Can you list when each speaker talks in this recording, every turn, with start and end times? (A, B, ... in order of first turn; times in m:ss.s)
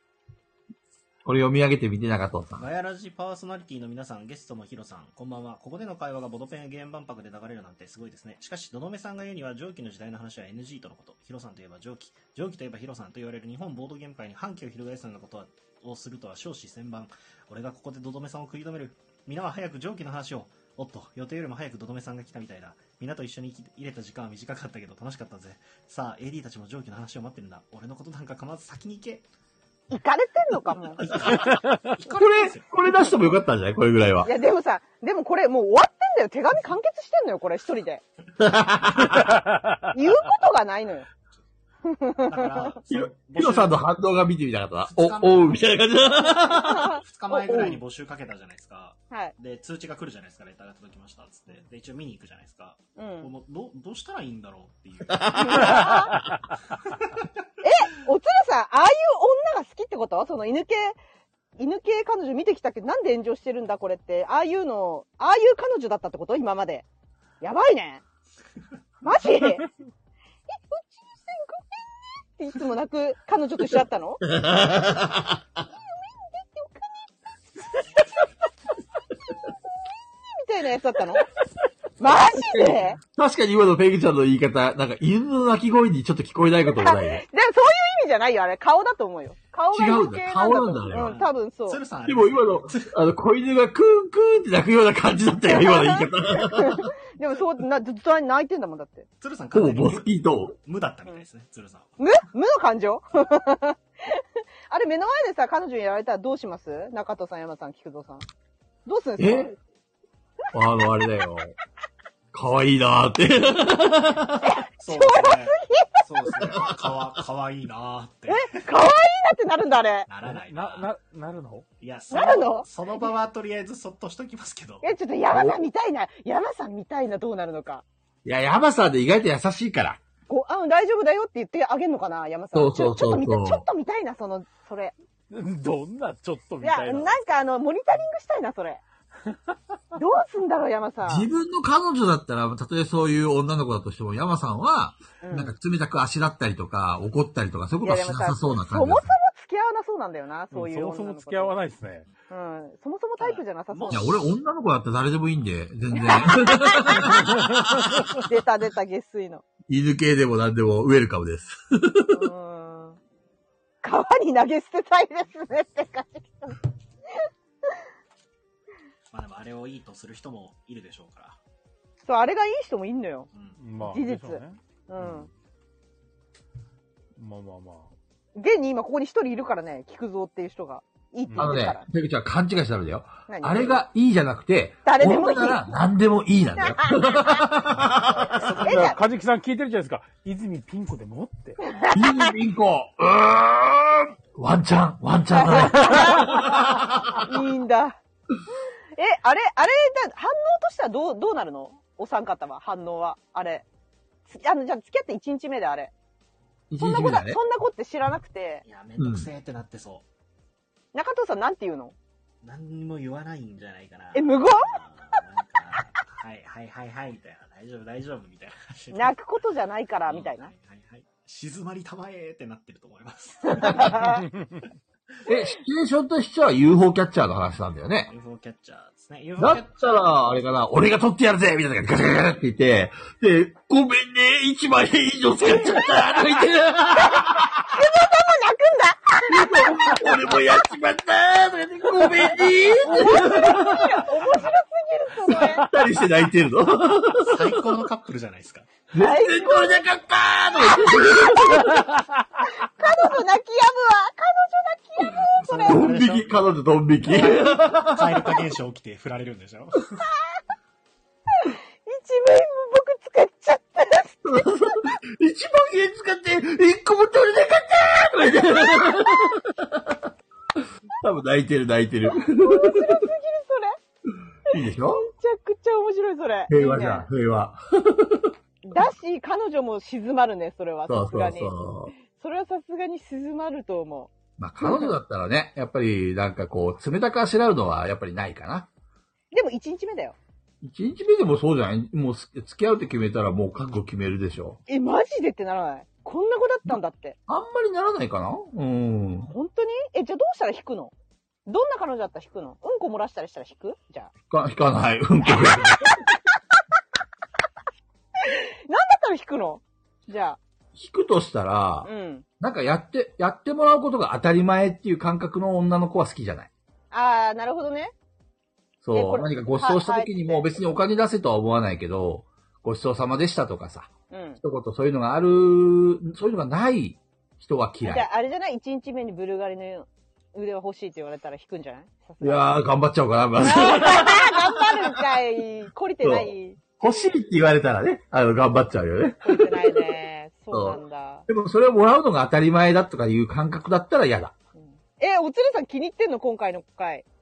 0:01.2-0:02.6 A
0:02.6-0:29.3 B
0:29.9-0:31.2 C
0:30.9-0:32.7 B
0:32.0-0:34.3 A
0:34.2-0:38.0 C
0:38.4-0:39.4 A
0:39.9-0:41.1 C
0:41.8-0:42.8 C
0:42.3-0:43.8 B
0:42.9-0:47.0 A
0:44.8-0:45.6 B
0:46.4-0:56.2 B
0:46.7-0:47.8 C
0:53.0-0:53.3 C
0:55.2-0:55.9 A
0:55.3-0:56.1 C
0:56.8-0:57.3 B
0:57.6-1:01.0 C
1:01.6-1:06.9 C
1:07.4-1:08.0 C
1:09.0-1:09.7 C
1:10.6-1:11.6 C
1:12.4-1:14.2 C
1:14.2-1:15.4 A
1:15.9-1:16.9 C
1:17.7-1:18.3 C
1:20.3-1:21.3 C
1:22.0-1:23.0 C
1:22.1-1:27.2 A
1:26.7-1:31.8 C
1:29.7-1:31.2 A
1:30.9-1:33.0 B
1:32.1-1:36.9 A
1:35.5-1:39.1 C
1:39.2-1:41.9 B
1:39.5-1:40.6 A
1:42.0-1:48.2 C
1:48.9-1:49.6 C
1:49.2-1:49.5 A
1:50.5-1:51.5 A
1:52.3-1:54.5 A
1:54.4-1:56.0 C
1:54.8-1:58.7 B
1:58.3-2:00.1 C
2:00.1-2:00.9 B
2:00.2-2:01.7 D
2:01.8-2:04.9 B
2:02.1-2:02.7 C
2:04.8-2:07.8 C
2:05.3-2:05.6 A
2:08.2-2:10.0 A
2:10.3-2:15.0 C
2:12.5-2:13.6 A
2:15.3-2:17.2 D
2:16.6-2:18.8 C
2:19.9-2:21.3 C
2:21.1-2:29.1 A
2:25.2-2:25.5 C
2:27.8-2:31.6 C
2:30.5-2:32.1 D
2:32.3-2:34.2 C
2:33.2-2:34.2 B
2:33.9-2:37.6 A
2:35.9-2:37.3 C
2:38.2-2:39.4 C
2:39.7-2:42.2 A
2:42.1-2:43.0 C
2:43.8-2:46.6 C
2:49.1-2:51.4 B
2:52.0-2:53.3 C
2:53.3-2:53.6 B
2:53.6-2:54.6 D
2:53.8-2:55.3 C
2:57.2-2:57.9 D
2:58.4-3:01.9 C
3:01.3-3:01.6 D
3:01.4-3:08.6 A
3:03.3-3:03.8 C
3:04.8-3:05.7 C
3:06.6-3:07.5 C
3:08.3-3:09.0 B
3:08.6-3:11.6 D
3:08.6-3:09.0 C
3:11.6-3:12.3 C
3:11.9-3:17.3 A
3:15.3-3:18.0 C
3:19.0-3:23.7 C
3:24.3-3:25.9 C
3:26.7-3:27.4 A
3:26.8-3:28.6 C
3:28.6-3:30.1 B
3:29.0-3:29.3 A
3:30.9-3:32.0 C
3:32.4-3:39.2 B
3:34.1-3:34.7 C
3:38.9-3:40.5 C
3:40.1-3:44.1 B
3:43.5-3:44.3 C
3:45.3-3:48.1 A
3:48.1-3:50.2 B
3:49.4-3:57.8 A
3:55.4-3:56.2 C
3:56.9-4:00.6 C
3:59.3-4:04.1 A
4:02.7-4:05.7 C
4:05.3-4:07.7 A
4:07.2-4:08.7 B
4:08.9-4:11.9 A
4:09.0-4:09.9 C
4:10.7-4:11.8 C
4:12.5-4:15.9 C
4:15.3-4:16.5 B
4:15.6-4:18.4 A
4:17.1-4:20.0 B
4:20.1-4:20.4 C
4:21.4-4:24.9 C
4:24.2-4:33.1 A
4:28.7-4:29.4 C
4:32.1-4:33.8 C
4:34.5-4:35.1 A
4:34.5-4:37.1 C
4:36.5-4:38.3 A
4:38.6-4:41.5 C
4:40.9-4:42.0 A
4:42.1-4:44.9 C
4:44.4-4:48.7 A
4:49.3-4:50.2 C
4:50.6-4:54.6 A
4:54.7-4:57.2 C
4:57.3-4:59.3 A
4:59.3-5:00.9 C
5:01.5-5:04.1 C
5:04.3-5:06.0 A
5:05.3-5:06.1 C
5:08.2-5:10.4 C
5:10.7-5:16.5 A
5:11.8-5:12.3 C
5:16.9-5:17.9 C
5:18.8-5:23.9 A
5:18.9-5:20.5 C
5:24.1-5:24.4 C
5:24.4-5:28.1 A
5:27.8-5:32.5 C
5:32.2-5:34.9 A
5:33.4-5:36.8 C
5:36.0-5:40.0 A
5:39.2-5:41.3 C
5:40.5-5:44.3 A
5:44.6-5:47.0 C